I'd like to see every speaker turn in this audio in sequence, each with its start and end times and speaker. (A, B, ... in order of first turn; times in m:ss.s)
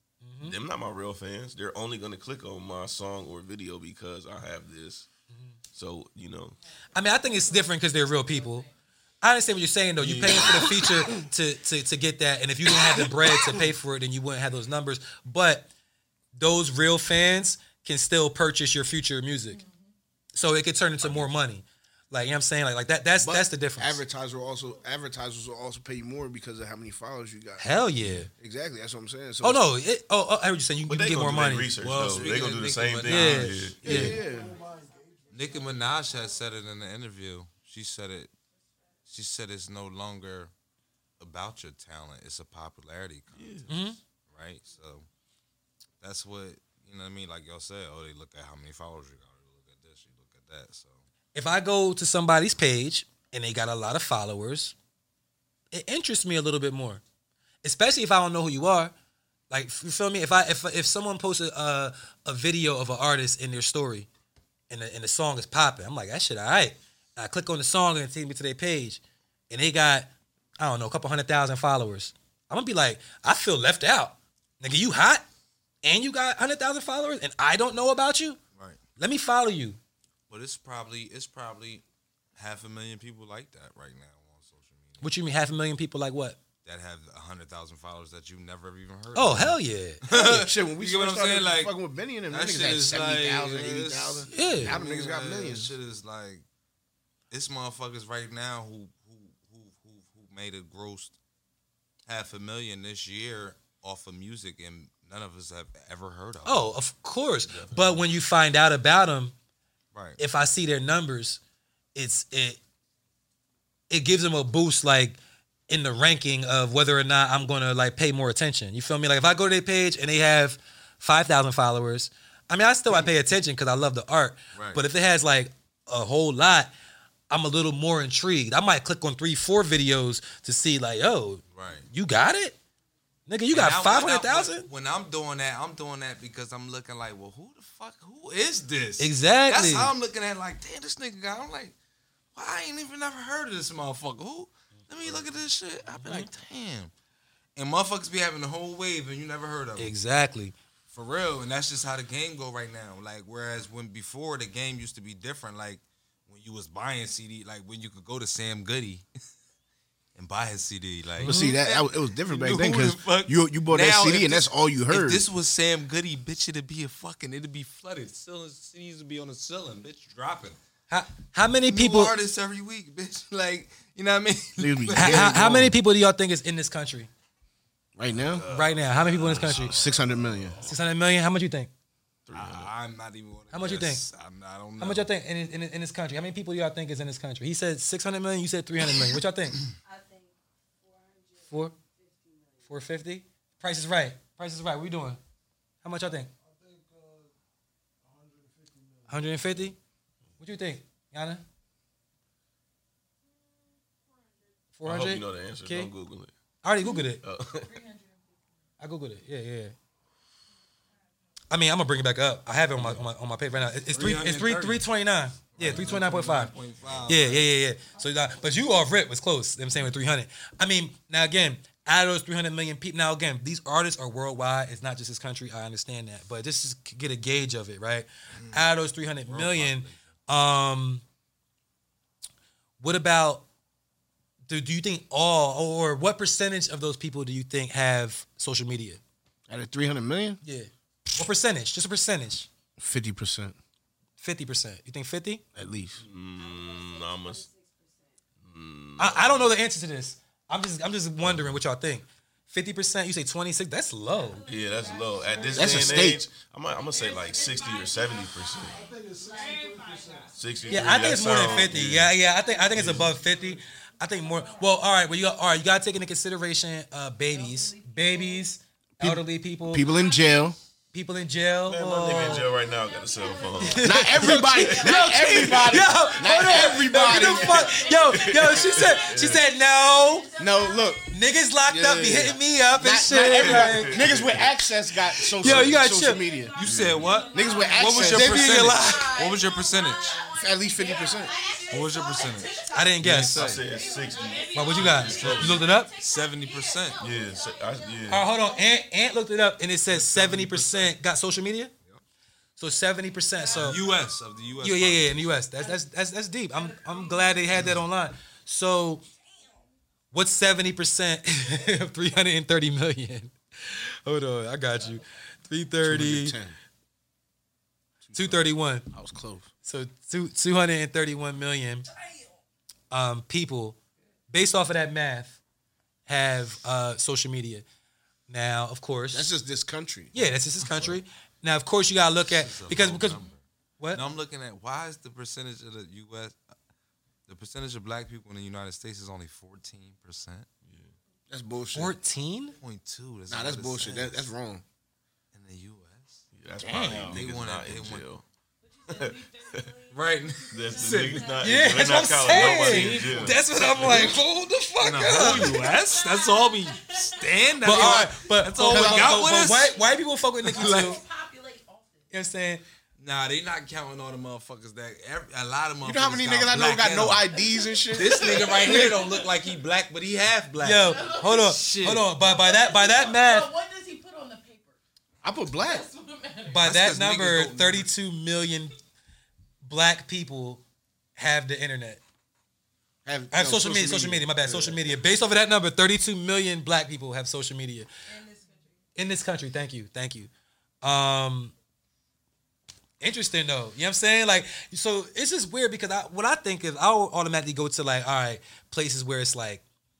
0:00.2-0:00.6 A
0:00.4-0:05.1 B
0:05.7-0:06.6 B
0:07.0-0:08.7 A
0:08.2-0:08.7 C
0:09.2-0:15.7 A
0:10.0-0:10.6 D
0:12.9-0:13.6 E
0:16.4-0:19.6 A
0:19.5-0:19.9 C
0:20.4-0:24.0 A
0:21.0-0:21.3 B
0:23.2-0:27.7 E
0:27.6-0:28.3 A
0:28.3-0:29.6 E
0:29.4-0:32.3 A
0:30.9-0:34.2 B
0:31.8-0:33.9 D
0:33.1-0:34.2 A
0:33.8-0:34.6 E
0:35.3-0:38.3 D
0:39.1-0:40.5 D
0:41.2-0:43.7 D
0:43.3-0:43.7 B
0:43.7-0:44.0 A
0:44.3-0:45.1 D
0:46.0-0:51.0 D
0:51.4-0:54.8 A
0:55.7-0:57.0 A
0:57.6-0:58.9 A
0:59.5-1:04.1 A
1:04.7-1:15.2 A
1:15.8-1:18.4 A
1:19.0-1:19.8 A
1:20.3-1:21.8 D
1:22.4-1:25.1 D
1:25.0-1:26.4 A
1:26.6-1:31.8 D
1:29.1-1:30.0 A
1:30.1-1:35.7 E
1:32.3-1:36.4 D
1:34.3-1:34.8 A
1:37.3-1:41.2 D
1:42.1-1:46.7 D
1:46.4-1:49.3 A
1:47.5-1:48.0 B
1:50.2-1:51.4 A
1:52.0-1:52.6 A
1:53.9-1:55.2 A
1:55.7-2:06.7 A
2:04.6-2:04.8 D
2:07.3-2:12.6 A
2:11.5-2:11.9 D
2:13.3-2:14.7 A
2:13.5-2:21.8 D
2:19.0-2:19.9 A
2:22.4-2:26.9 D
2:26.0-2:26.3 A
2:27.6-2:29.9 D
2:29.8-2:30.6 A
2:30.9-2:39.1 D
2:40.2-2:50.6 D
2:41.2-2:45.2 E
2:50.9-2:52.1 A
2:51.7-2:55.3 D
2:54.6-2:55.8 E
2:55.0-2:57.1 A
2:58.0-2:58.4 E
2:58.1-3:00.6 B
2:58.5-2:59.8 A
2:59.0-2:59.6 D
2:59.5-3:00.6 E
3:00.6-3:01.7 A
3:02.3-3:02.7 B
3:02.3-3:05.1 D
3:03.5-3:04.0 A
3:04.8-3:09.6 A
3:11.5-3:11.8 A
3:12.7-3:15.2 A
3:15.8-3:16.3 A
3:19.1-3:19.8 A
3:20.4-3:21.4 A
3:24.8-3:25.9 A
3:24.8-3:26.3 B
3:26.6-3:27.2 A
3:27.2-3:27.8 B
3:27.7-3:28.2 C
3:28.8-3:29.8 A
3:31.5-3:36.5 A
3:33.9-3:34.8 D
3:35.6-3:37.5 D
3:37.1-3:51.0 A
3:48.4-3:48.7 D
3:49.3-3:50.0 D
3:52.8-3:53.5 A
3:54.5-3:59.0 A
3:59.5-4:00.4 E
4:00.4-4:02.5 A
4:02.8-4:03.6 E
4:04.2-4:05.4 A
4:05.6-4:06.0 E
4:06.0-4:07.5 B
4:08.4-4:09.5 B
4:09.0-4:14.5 A
4:11.2-4:11.6 B
4:14.5-4:18.8 B
4:15.5-4:16.2 E
4:17.0-4:17.9 C
4:18.6-4:20.7 C
4:20.4-4:22.2 B
4:20.7-4:29.9 A
4:22.7-4:23.1 B
4:27.5-4:28.3 C
4:29.0-4:30.6 E
4:29.8-4:30.3 C
4:30.9-4:32.5 A
4:31.7-4:35.7 B
4:32.6-4:33.7 C
4:33.6-4:40.3 A
4:33.8-4:37.8 E
4:34.7-4:35.1 C
4:35.7-4:41.0 C
4:37.7-4:39.4 B
4:40.4-4:41.1 E
4:41.1-4:44.0 A
4:41.7-4:46.5 E
4:43.1-4:44.6 B
4:45.4-4:46.2 A
4:45.4-4:45.8 B
4:46.0-4:53.0 C
4:46.6-4:50.2 D
4:46.6-4:47.1 B
4:47.3-4:48.5 E
4:47.8-4:49.1 A
4:50.4-4:51.4 E
4:51.7-4:53.6 D
4:52.7-4:53.5 A
4:53.3-4:55.6 B
4:53.6-4:58.8 C
4:54.5-4:55.9 A
4:54.8-4:57.0 D
4:57.0-4:58.3 B
4:58.1-5:01.7 A
4:59.9-5:01.0 D
5:02.6-5:03.8 A
5:03.4-5:04.0 C
5:03.6-5:05.4 D
5:04.6-5:09.0 A
5:06.7-5:07.6 C
5:10.1-5:16.4 A
5:15.8-5:16.6 E
5:18.0-5:19.5 E
5:18.1-5:18.9 A
5:19.6-5:21.9 A
5:22.9-5:23.8 A
5:24.3-5:25.4 A
5:26.1-5:27.6 A
5:28.3-5:29.3 A
5:29.1-5:30.2 E
5:30.1-5:33.2 A
5:32.2-5:33.4 D
5:33.9-5:36.4 D
5:37.3-5:40.5 D
5:40.6-5:40.9 B
5:41.3-5:42.0 E
5:41.7-5:42.6 A
5:42.6-5:44.3 D
5:43.3-5:44.6 E
5:45.3-5:48.0 D
5:46.3-5:48.2 B
5:46.6-5:47.2 A
5:48.8-5:51.3 C
5:48.9-5:49.7 B
5:49.9-5:51.3 D
5:50.5-5:54.2 B
5:51.4-5:55.7 A
5:52.3-5:54.2 D
5:54.8-5:59.7 D
5:55.5-5:58.0 C
5:57.6-6:01.0 A
5:58.7-5:59.9 C
6:00.4-6:01.0 D
6:00.5-6:02.0 C
6:02.1-6:02.6 A
6:03.0-6:07.4 D
6:05.8-6:08.6 E
6:07.3-6:09.6 C
6:07.9-6:12.1 D
6:10.6-6:13.5 A
6:10.8-6:14.8 C
6:15.2-6:15.9 E
6:15.5-6:16.6 C
6:16.5-6:18.7 A
6:16.6-6:17.9 D
6:19.6-6:20.6 A
6:21.2-6:22.0 A
6:23.0-6:24.9 E
6:23.3-6:27.9 A
6:28.1-6:28.8 C
6:29.0-6:30.3 A
6:30.8-6:31.5 A
6:33.0-6:39.6 A